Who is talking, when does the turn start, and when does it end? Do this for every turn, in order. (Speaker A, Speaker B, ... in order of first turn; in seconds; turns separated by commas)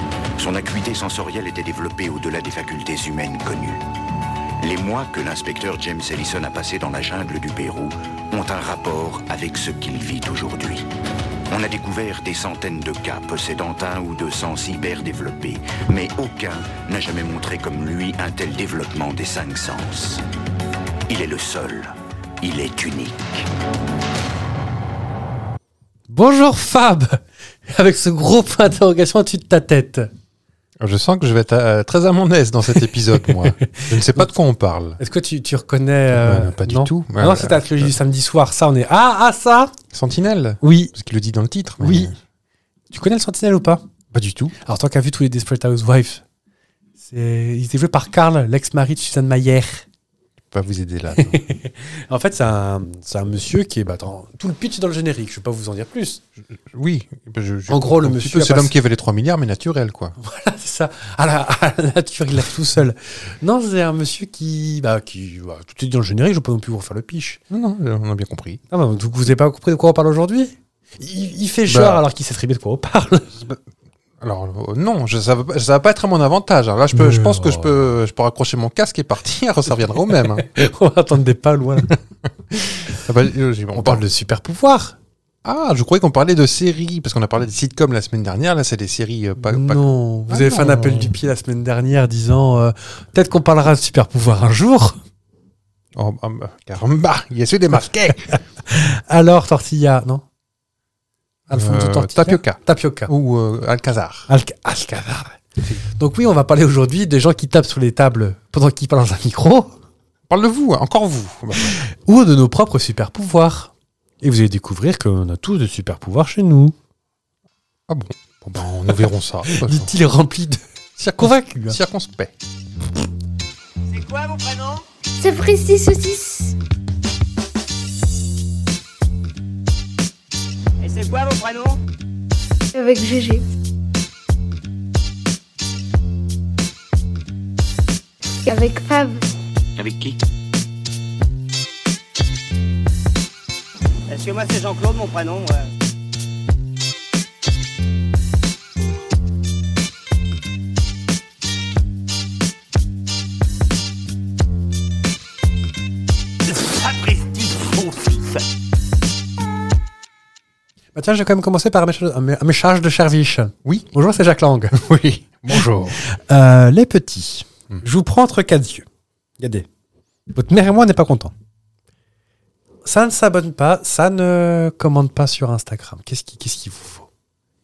Speaker A: 0.4-3.8, Speaker A: 4.6-10.9, Speaker A: 11.5-20.2, Speaker A: 21.1-23.5, Speaker B: 26.1-30.1, Speaker C: 30.8-35.0, Speaker B: 33.1-34.3, Speaker B: 35.0-39.7, Speaker C: 36.1-37.9, Speaker C: 39.9-42.1, Speaker B: 40.6-40.9, Speaker B: 41.8-42.1, Speaker B: 42.9-43.8, Speaker C: 44.1-44.5, Speaker B: 44.6-46.2, Speaker B: 47.0-49.8, Speaker C: 50.5-51.4, Speaker B: 51.1-56.2, Speaker C: 56.6-60.1, Speaker B: 57.7-58.7, Speaker B: 60.2-67.4, Speaker C: 67.5-68.6, Speaker B: 68.7-73.4, Speaker C: 71.7-72.0, Speaker C: 74.2-80.5, Speaker B: 76.9-77.9, Speaker B: 80.2-81.9, Speaker C: 82.8-84.0, Speaker B: 83.7-85.0, Speaker C: 85.4-91.2, Speaker B: 89.4-95.0, Speaker C: 95.9-98.4, Speaker B: 98.7-100.2, Speaker B: 101.5-103.1, Speaker C: 101.5-104.3, Speaker B: 104.3-109.8, Speaker C: 110.3-111.8, Speaker B: 111.8-116.7, Speaker C: 117.9-119.9, Speaker B: 119.4-121.8, Speaker C: 121.0-122.3, Speaker D: 123.9-124.8, Speaker E: 125.2-126.5, Speaker D: 130.8-131.8, Speaker E: 132.7-133.4, Speaker E: 138.4-139.3, Speaker A: 139.8-140.2, Speaker D: 144.1-145.7, Speaker A: 156.4-158.4, Speaker B: 160.9-164.8, Speaker C: 163.6-163.9, Speaker C: 164.7-166.0, Speaker B: 165.9-168.8, Speaker B: 169.4-169.7, Speaker B: 170.3-171.3, Speaker B: 172.8-177.1